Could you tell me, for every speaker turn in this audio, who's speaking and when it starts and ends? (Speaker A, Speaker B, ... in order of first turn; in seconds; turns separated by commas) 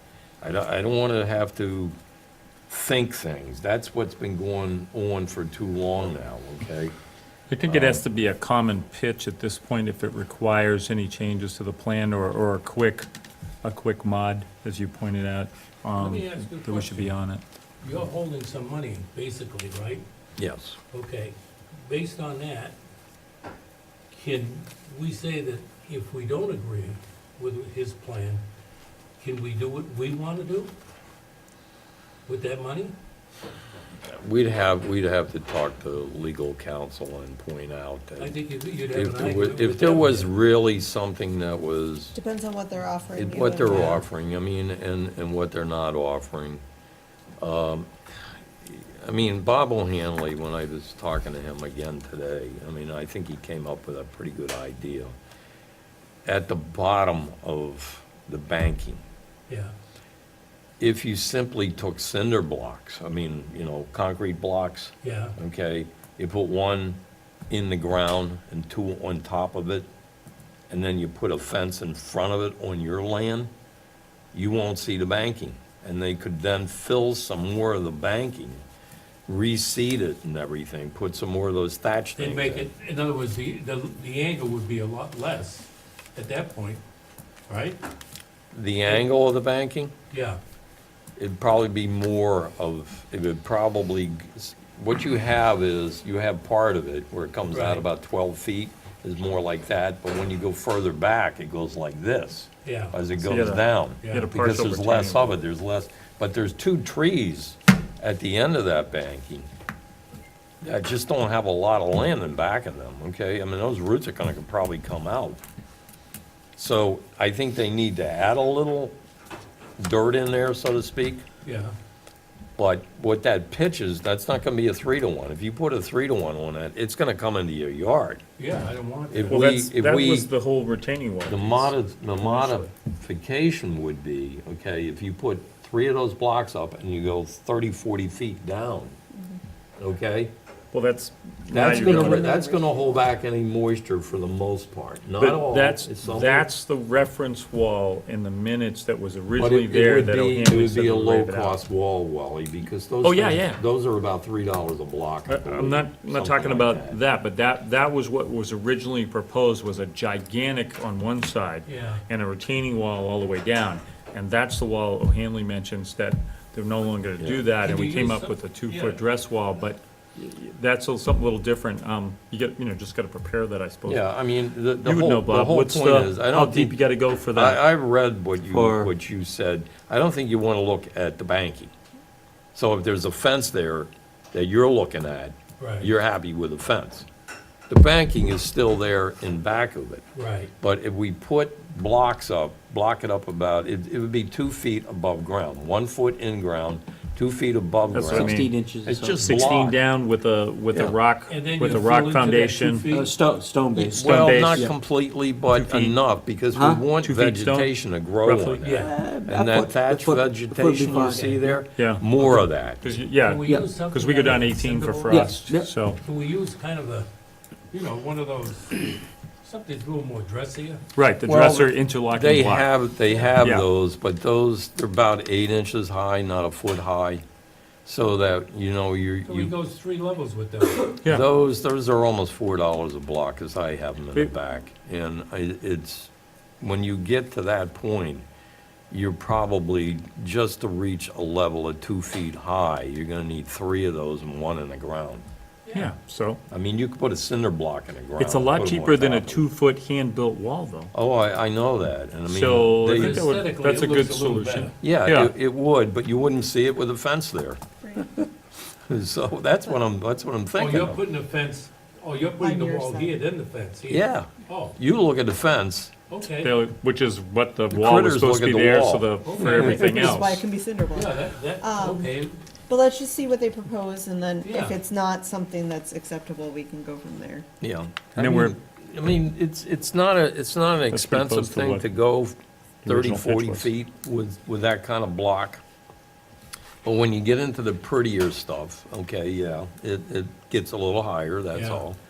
Speaker A: 0.4-1.9, Speaker A: 2.7-6.9, Speaker B: 7.5-13.1, Speaker A: 7.6-8.0, Speaker B: 13.6-17.4, Speaker C: 15.9-17.1, Speaker C: 17.8-20.0, Speaker A: 20.4-20.8, Speaker C: 20.9-22.8, Speaker C: 24.1-28.4, Speaker C: 29.2-30.7, Speaker C: 32.2-32.9, Speaker A: 34.0-42.1, Speaker C: 38.2-40.3, Speaker D: 42.1-44.0, Speaker A: 43.1-46.6, Speaker C: 43.7-44.0, Speaker A: 47.4-47.9, Speaker A: 48.6-55.1, Speaker A: 56.2-59.0, Speaker A: 60.8-69.9, Speaker C: 65.0-65.3, Speaker A: 70.7-73.5, Speaker A: 74.3-78.6, Speaker A: 79.3-82.7, Speaker C: 82.2-86.8, Speaker C: 87.5-87.8, Speaker A: 88.5-89.9, Speaker C: 90.1-90.4, Speaker A: 91.2-109.5, Speaker C: 97.5-97.8, Speaker C: 102.6-103.0, Speaker B: 103.2-105.4, Speaker C: 104.0-104.3, Speaker A: 110.6-115.4, Speaker A: 116.5-119.0, Speaker A: 119.8-121.2, Speaker C: 121.4-121.7, Speaker A: 122.6-128.2, Speaker C: 128.4-129.5, Speaker A: 129.1-130.3, Speaker B: 129.3-132.7, Speaker A: 131.3-138.9, Speaker A: 139.8-140.3, Speaker B: 140.7-142.4, Speaker A: 141.5-146.4, Speaker D: 141.5-142.8, Speaker B: 145.2-151.6, Speaker A: 149.3-157.0, Speaker B: 153.0-153.6, Speaker B: 155.3-174.0, Speaker C: 161.7-162.0, Speaker A: 167.2-167.4, Speaker C: 167.6-169.0, Speaker A: 173.8-176.8, Speaker B: 174.8-177.6, Speaker A: 177.3-181.7, Speaker E: 178.5-178.9, Speaker A: 182.5-187.1, Speaker C: 185.6-185.9, Speaker A: 187.7-190.0, Speaker C: 190.1-190.5, Speaker A: 190.6-199.8, Speaker B: 197.9-198.5, Speaker E: 198.0-199.3, Speaker B: 199.2-202.9, Speaker C: 201.3-203.1, Speaker E: 202.9-204.7, Speaker A: 203.7-212.9, Speaker B: 204.0-204.7, Speaker B: 205.5-206.0, Speaker E: 206.5-206.9, Speaker B: 207.0-208.8, Speaker C: 208.6-208.9, Speaker E: 208.8-211.6, Speaker C: 210.9-211.4, Speaker B: 211.7-212.3, Speaker B: 212.8-216.0, Speaker C: 213.2-215.3, Speaker E: 213.4-213.8, Speaker E: 215.0-215.7, Speaker C: 216.0-217.1, Speaker C: 217.7-220.8, Speaker B: 220.9-222.7, Speaker A: 221.2-227.2, Speaker B: 223.4-223.7, Speaker A: 227.8-229.5, Speaker C: 229.2-231.0, Speaker A: 231.0-238.2, Speaker A: 238.9-245.2, Speaker B: 245.7-246.4, Speaker A: 246.5-249.4, Speaker B: 248.2-250.9, Speaker A: 250.9-253.3, Speaker B: 252.2-255.3, Speaker C: 252.9-254.7, Speaker A: 254.8-257.6, Speaker D: 257.8-258.1, Speaker A: 258.9-261.0, Speaker C: 260.6-264.8, Speaker D: 262.3-263.2, Speaker A: 263.9-265.9, Speaker C: 266.1-266.6, Speaker B: 266.4-270.4, Speaker A: 267.7-269.1, Speaker C: 269.2-270.2, Speaker D: 269.6-272.1, Speaker C: 270.9-272.4, Speaker D: 272.7-277.4, Speaker C: 274.4-274.8, Speaker A: 277.6-285.6, Speaker B: 278.1-278.5, Speaker B: 280.9-281.8, Speaker B: 282.8-283.7, Speaker A: 286.8-292.0, Speaker C: 291.5-291.8